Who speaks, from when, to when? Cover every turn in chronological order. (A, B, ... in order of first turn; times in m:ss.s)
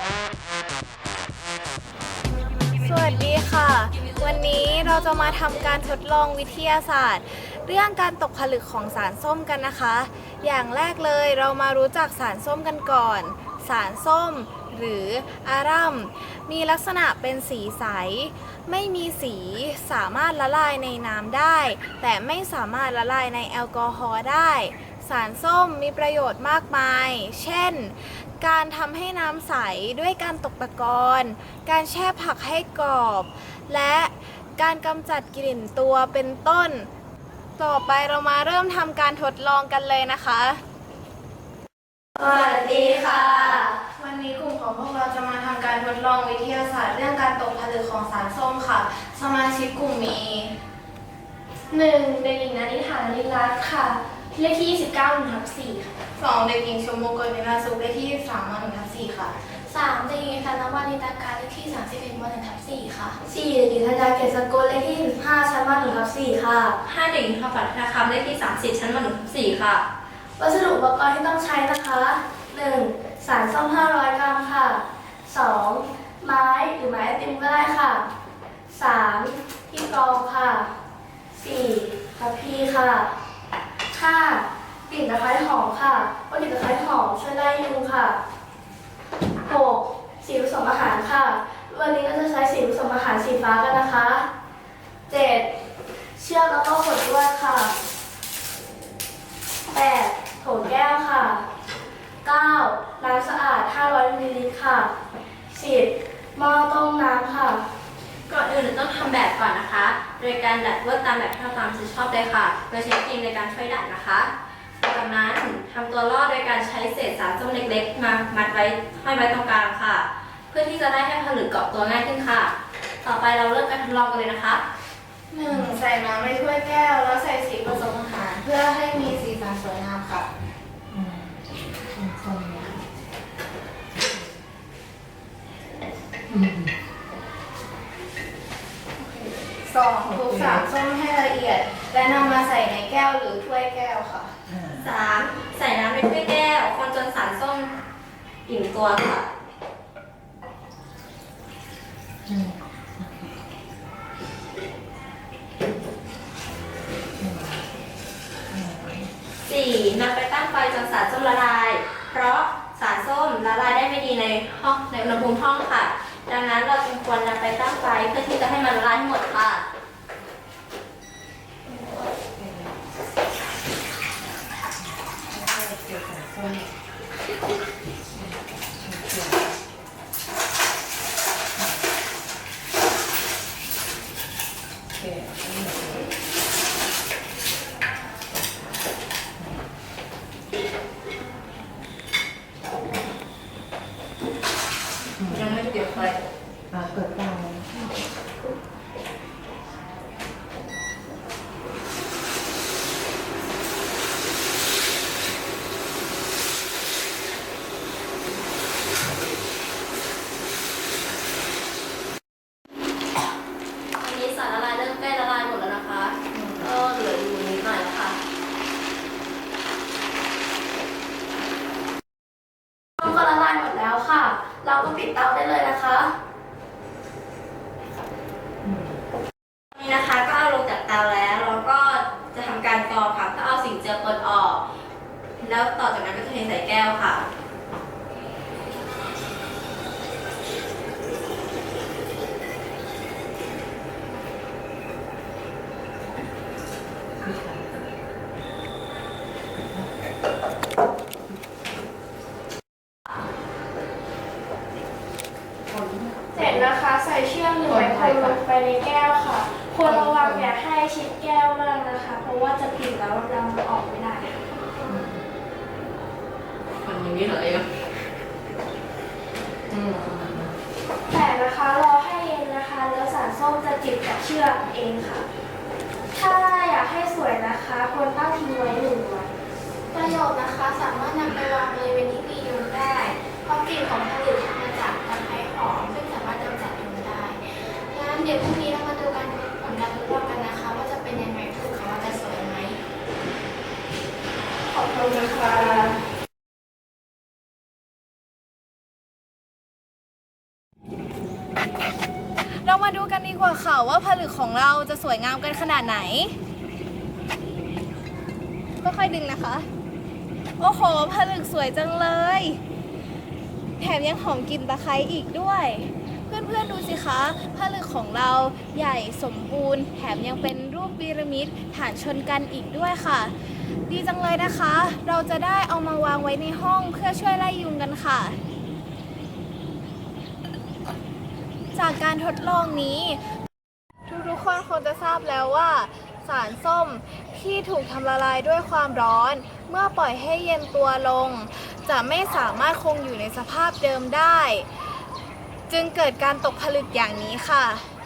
0:02.8-0:36.9 A
0:37.6-0:40.6 A
0:42.2-0:43.7 B
0:42.2-0:50.5 A
0:51.7-0:55.9 B
0:56.2-0:59.3 A
0:59.7-1:06.8 B
1:06.8-1:09.8 C
1:10.4-1:18.0 B
1:18.7-1:20.7 B
1:21.3-1:23.1 B
1:23.9-1:28.2 B
1:29.4-1:34.3 B
1:35.1-1:35.5 B
1:36.2-1:37.7 B
1:39.7-1:41.4 B
1:42.2-1:44.9 B
1:45.5-1:47.6 B
1:48.3-1:54.3 C
1:54.8-2:04.6 C
2:05.3-2:10.3 A
2:10.9-2:11.3 D
2:11.9-2:12.7 D
2:13.9-2:14.2 D
2:16.3-2:16.7 D
2:19.0-2:24.3 A
2:24.5-2:24.8 D
2:24.8-2:27.7 C
2:28.4-2:29.3 C
2:32.3-2:33.1 D
2:37.2-2:37.5 D
2:38.5-2:39.1 D
2:39.4-2:49.6 C
2:52.2-2:52.7 D
2:55.3-2:56.7 D
2:58.8-2:59.4 D
3:05.0-3:06.0 D
3:15.2-3:16.2 C
3:16.7-3:17.9 D
3:33.9-3:38.2 C
3:43.0-3:46.1 B
3:48.6-3:48.9 D
3:49.7-3:54.6 C
3:55.4-3:57.2 C
4:07.2-4:07.8 D
4:15.7-4:16.4 D
4:16.3-4:24.4 B
4:17.7-4:18.3 C
4:19.9-4:20.4 C
4:26.8-4:27.7 C
4:29.9-4:30.5 D
4:31.1-4:35.2 B
4:36.1-4:39.3 B
4:40.4-4:52.8 E
4:44.9-4:46.7 A
4:49.7-4:52.6 A
4:54.7-4:56.0 B
5:02.6-5:06.3 A
5:08.8-5:09.7 A
5:10.6-5:12.6 A
5:13.8-5:23.3 A
5:23.8-5:28.4 A
5:31.7-5:33.2 A
5:34.1-5:44.7 A
5:45.7-5:47.9 A